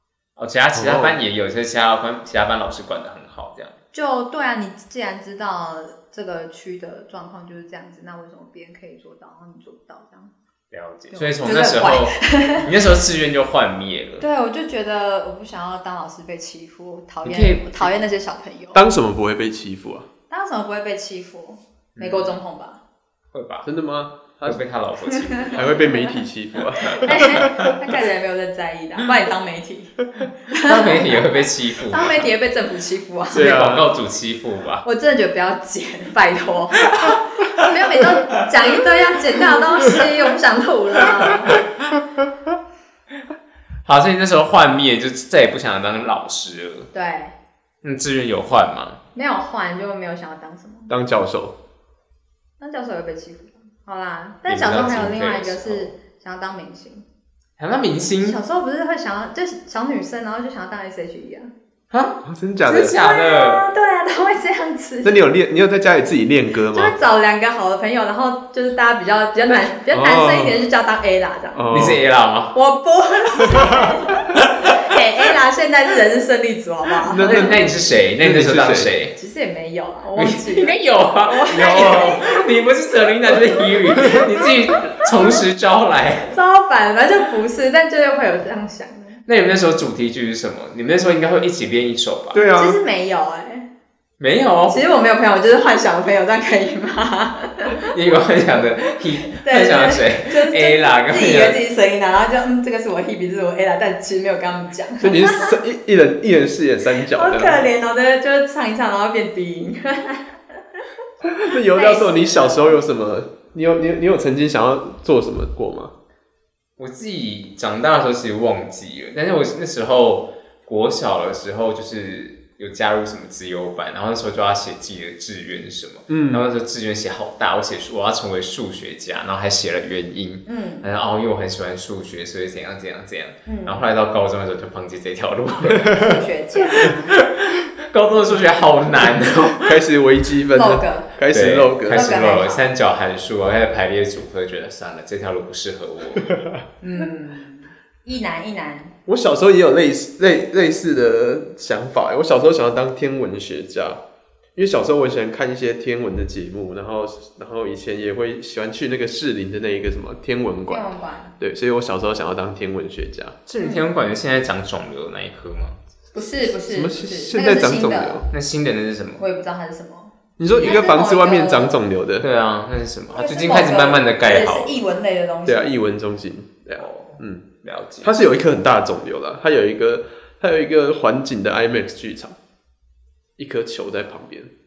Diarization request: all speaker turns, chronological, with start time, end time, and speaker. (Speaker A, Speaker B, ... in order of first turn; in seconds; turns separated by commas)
Speaker A: 0.4-3.8, Speaker B: 0.7-1.2, Speaker C: 3.9-10.3, Speaker A: 10.7-14.2, Speaker C: 11.1-12.7, Speaker C: 14.2-18.8, Speaker A: 17.2-17.9, Speaker B: 18.7-20.1, Speaker C: 20.3-22.8, Speaker A: 22.0-22.3, Speaker A: 23.3-23.7, Speaker B: 23.6-24.6, Speaker A: 24.4-25.9, Speaker C: 25.1-26.2, Speaker B: 25.5-27.7, Speaker C: 26.8-31.2, Speaker A: 30.6-32.2, Speaker C: 31.8-33.6, Speaker B: 33.3-33.9, Speaker A: 33.3-34.8, Speaker C: 34.8-41.6, Speaker A: 43.8-46.9, Speaker C: 46.9-47.4, Speaker A: 47.8-49.0, Speaker C: 49.1-50.9, Speaker B: 50.9-51.6, Speaker C: 52.6-57.1, Speaker A: 54.5-55.9, Speaker A: 57.6-58.4, Speaker C: 58.2-61.5, Speaker A: 61.9-63.6, Speaker B: 62.2-63.0, Speaker C: 63.0-65.3, Speaker B: 65.0-67.0, Speaker C: 66.7-71.7, Speaker B: 69.9-70.6, Speaker B: 71.5-72.0, Speaker A: 71.7-72.6, Speaker C: 72.5-77.6, Speaker B: 77.0-77.6, Speaker A: 77.2-79.2, Speaker B: 78.2-78.9, Speaker C: 79.2-82.6, Speaker A: 80.2-86.3, Speaker B: 81.5-82.2, Speaker C: 83.4-85.4, Speaker C: 86.3-89.2, Speaker A: 89.3-92.5, Speaker B: 92.3-92.8, Speaker C: 92.5-93.7, Speaker A: 94.2-94.8, Speaker C: 94.7-97.9, Speaker A: 97.8-101.6, Speaker C: 99.3-105.5, Speaker B: 105.0-107.7, Speaker C: 107.1-110.8, Speaker B: 111.2-115.9, Speaker C: 111.5-112.8, Speaker A: 116.8-136.2, Speaker B: 126.1-126.5, Speaker C: 130.5-130.9, Speaker C: 133.5-133.8, Speaker C: 135.8-137.2, Speaker A: 136.8-139.8, Speaker B: 139.6-142.1, Speaker C: 140.5-141.2, Speaker A: 141.3-146.3, Speaker C: 141.9-142.7, Speaker C: 146.8-148.9, Speaker B: 149.1-154.0, Speaker B: 154.6-160.8, Speaker C: 160.7-161.3, Speaker B: 161.4-163.4, Speaker A: 163.5-165.8, Speaker C: 166.1-168.3, Speaker B: 166.7-168.3, Speaker A: 168.3-169.2, Speaker C: 169.2-171.8, Speaker B: 170.4-172.3, Speaker A: 172.2-174.8, Speaker C: 173.1-175.8, Speaker B: 175.5-177.5, Speaker A: 176.8-178.1, Speaker B: 178.0-182.4, Speaker B: 183.4-184.5